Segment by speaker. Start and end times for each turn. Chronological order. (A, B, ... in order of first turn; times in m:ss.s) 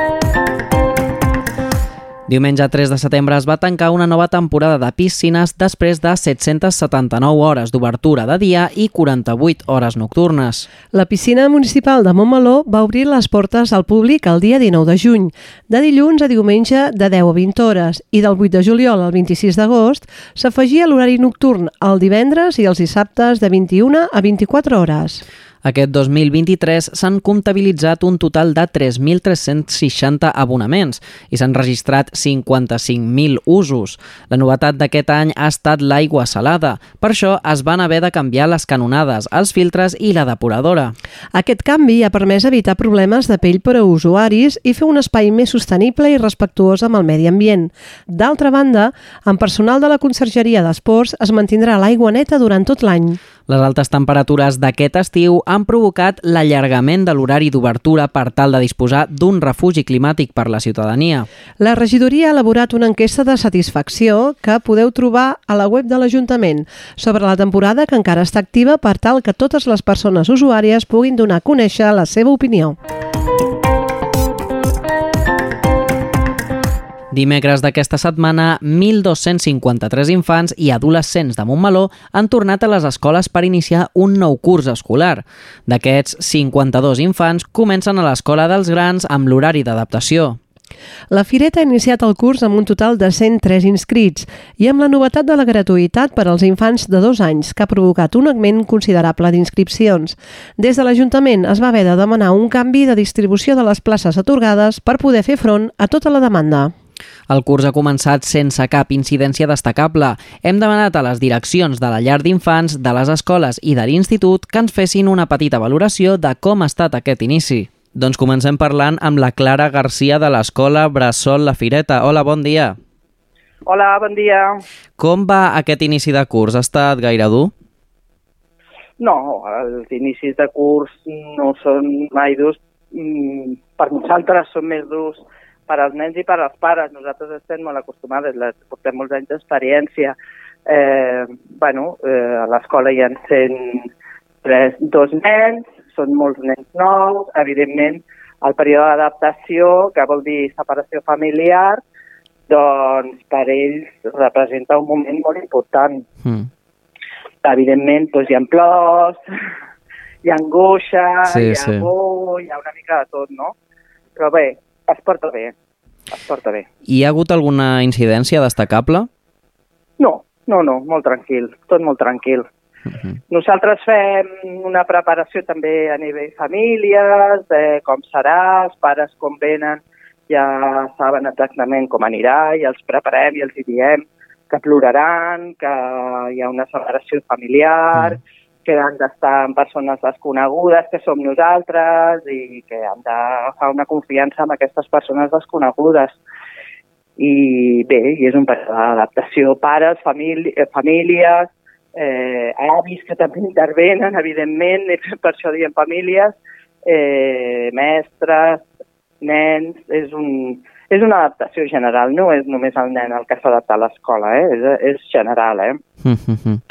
0:02.3-0:10.7 A
0:10.9-0:25.2 B
0:25.6-0:40.9 A
0:41.3-0:53.2 B
0:53.5-1:01.3 A
1:01.6-1:12.8 B
1:17.1-1:30.4 A
1:31.1-1:46.7 B
1:47.3-2:02.8 A
2:03.7-2:04.6 C
2:05.0-2:07.5 A
2:09.0-2:20.1 C
2:20.7-2:23.9 C
2:24.4-2:31.8 C
2:32.5-2:36.0 C
2:37.4-2:39.2 C
2:40.2-2:43.5 C
2:41.3-2:41.8 A
2:44.2-2:45.5 C
2:46.1-2:46.6 C
2:46.9-2:49.1 A
2:50.0-2:52.4 C
2:53.3-3:16.2 C
3:17.2-3:26.3 C
3:26.8-3:28.6 C
3:29.2-3:35.8 C
3:36.0-3:36.6 A